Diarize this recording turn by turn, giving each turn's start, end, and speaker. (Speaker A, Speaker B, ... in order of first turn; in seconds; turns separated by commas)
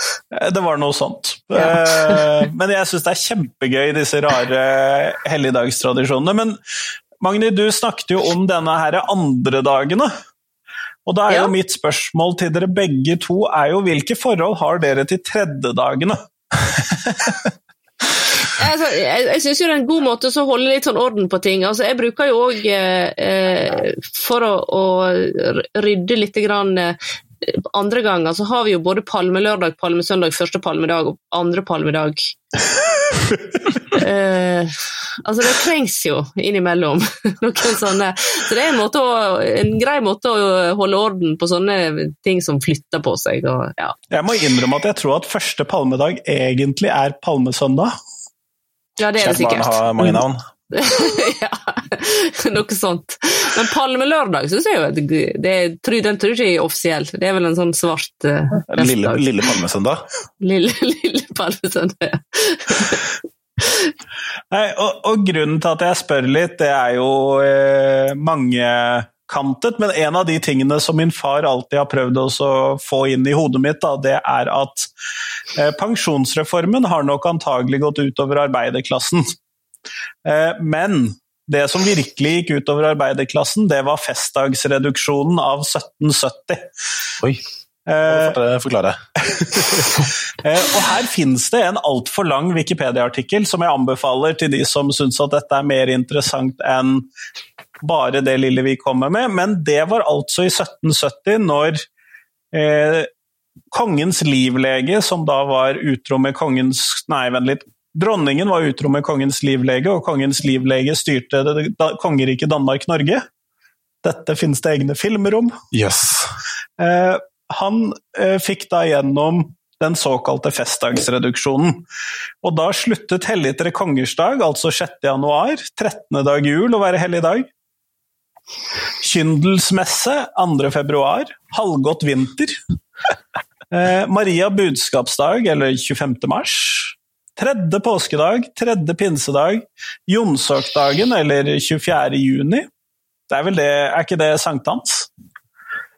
Speaker A: 0.3-6.6, Speaker B: 1.6-2.2, Speaker A: 7.2-10.1, Speaker A: 11.1-16.2, Speaker A: 17.1-17.4, Speaker B: 18.4-32.4, Speaker B: 33.8-44.0, Speaker A: 44.1-47.9, Speaker B: 49.0-50.1, Speaker C: 49.2-50.4, Speaker B: 50.7-59.3, Speaker C: 58.7-60.0, Speaker B: 60.4-63.0, Speaker A: 64.5-74.9, Speaker A: 75.5-79.3, Speaker A: 80.2-86.7, Speaker A: 87.9-88.4, Speaker C: 88.0-89.9, Speaker A: 89.5-97.1, Speaker A: 97.8-101.8, Speaker A: 102.5-103.1, Speaker A: 103.7-113.2, Speaker A: 114.0-115.6, Speaker C: 115.7-116.3, Speaker A: 116.8-121.8, Speaker A: 122.4-127.5, Speaker A: 129.0-132.6, Speaker A: 133.7-142.7, Speaker A: 143.3-145.1